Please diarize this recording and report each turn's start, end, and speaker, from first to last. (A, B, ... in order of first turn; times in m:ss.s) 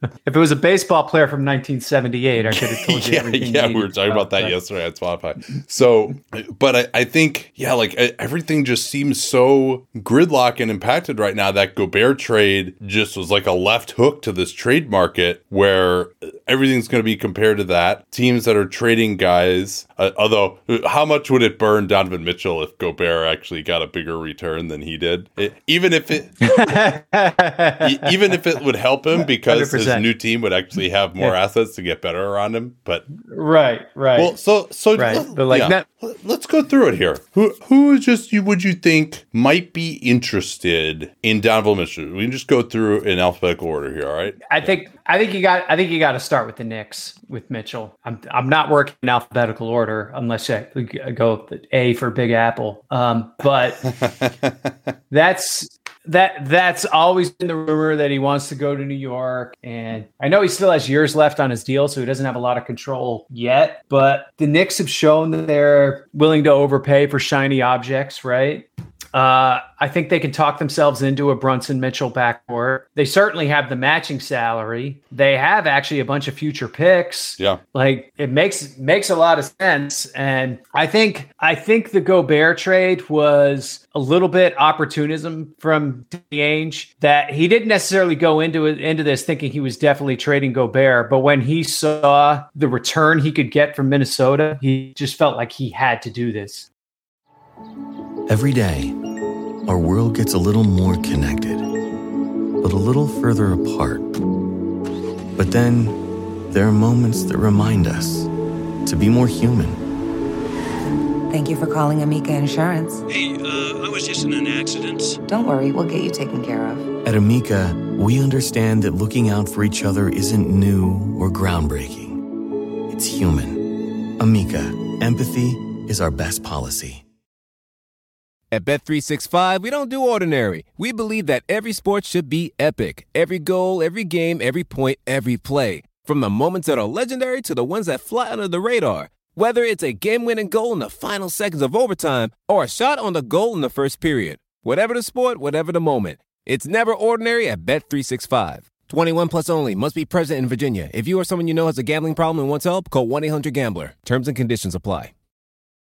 0:00.2-0:04.5 A
0:02.5-0:26.6 B
0:26.4-0:28.3 A
0:27.8-0:33.0 B
0:29.4-0:30.0 A
0:33.2-0:34.3 A
0:34.2-0:44.7 B
0:35.0-0:35.8 A
0:44.5-0:53.9 A
0:53.8-0:54.5 B
0:55.1-1:36.7 A
1:38.3-1:39.0 C
1:39.6-1:41.6 C
1:42.6-1:44.1 C
1:45.4-1:48.3 C
1:48.8-1:49.8 C
1:51.3-1:53.0 D
1:53.1-1:55.2 E
1:55.3-1:56.9 D
1:57.0-2:02.2 C
2:02.9-2:07.0 C
2:08.5-2:35.1 F